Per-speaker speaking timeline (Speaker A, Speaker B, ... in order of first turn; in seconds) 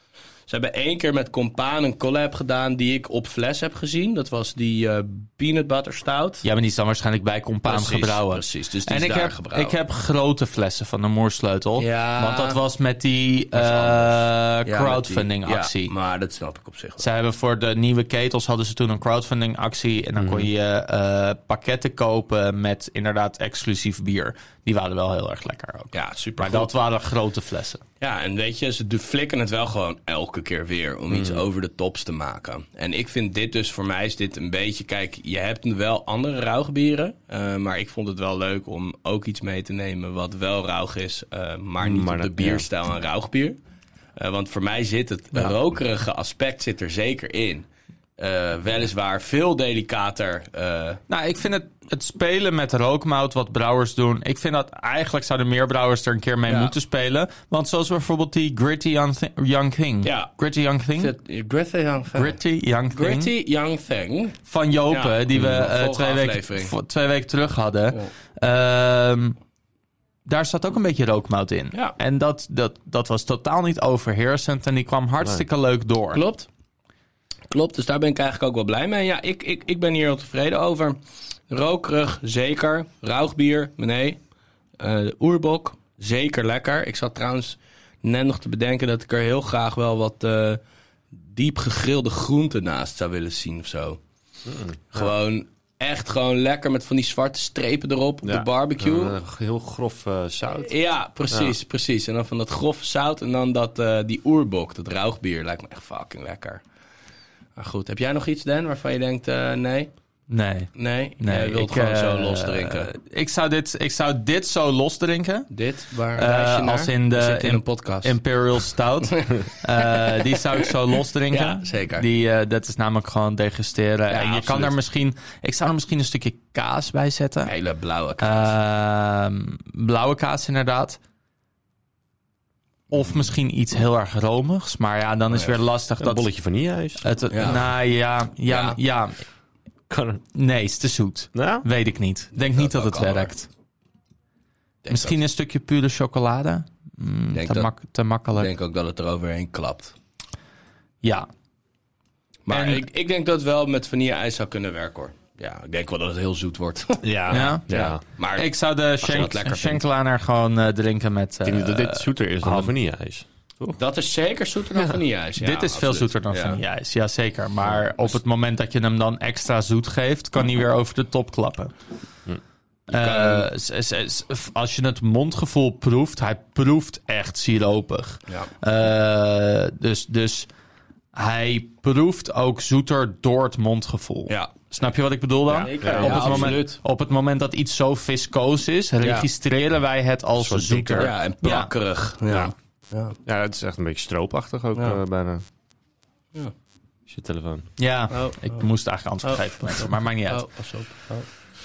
Speaker A: 0.5-6.4, 7.7-9.8, 11.8-12.6, 13.5-17.1, 25.9-26.7, 28.0-43.5, 44.2-47.6, 48.2-51.0, 56.5-56.7, 60.0-60.3, 61.0-62.4, 62.9-64.4, 64.9-66.7, 76.1-76.5, 77.5-81.0, 81.5-84.2, 84.8-90.6, 91.2-94.0, 94.9-99.2, 100.5-106.6, 107.6-109.9, 110.7-112.9, 115.5-118.2, 119.0-120.7, 121.3-122.0, 124.1-124.7, 127.5-128.5, 135.3-135.6, 137.3-137.6, 138.5-138.8, 142.5-143.3, 144.8-145.2, 147.3-147.7, 148.3-149.9, 152.5-158.5, 159.0-159.8, 163.8-166.6, 172.9-173.5, 185.5-186.8, 191.0-193.2, 198.1-198.6, 199.2-201.3
Speaker B: 6.4-15.9, 17.0-27.8, 51.1-61.1, 62.1-63.3, 64.5-69.3, 70.2-76.2, 110.3-115.5, 116.1-127.5, 128.2-131.0, 132.9-136.3, 137.0-139.2, 140.3-143.5, 144.9-148.5, 152.5-152.8, 157.2-157.7, 158.3-162.7, 165.4-171.7, 172.9-180.5, 181.1-191.7, 197.8-200.4
Speaker C: 20.2-20.5, 31.1-31.4, 41.8-42.6, 94.4-95.1, 98.2-100.7, 136.0-137.1, 139.9-140.2, 141.3-141.7, 157.1-158.0, 161.4-163.8, 185.8-186.6, 189.0-189.3, 190.4-191.1, 193.2-195.4, 197.1-197.7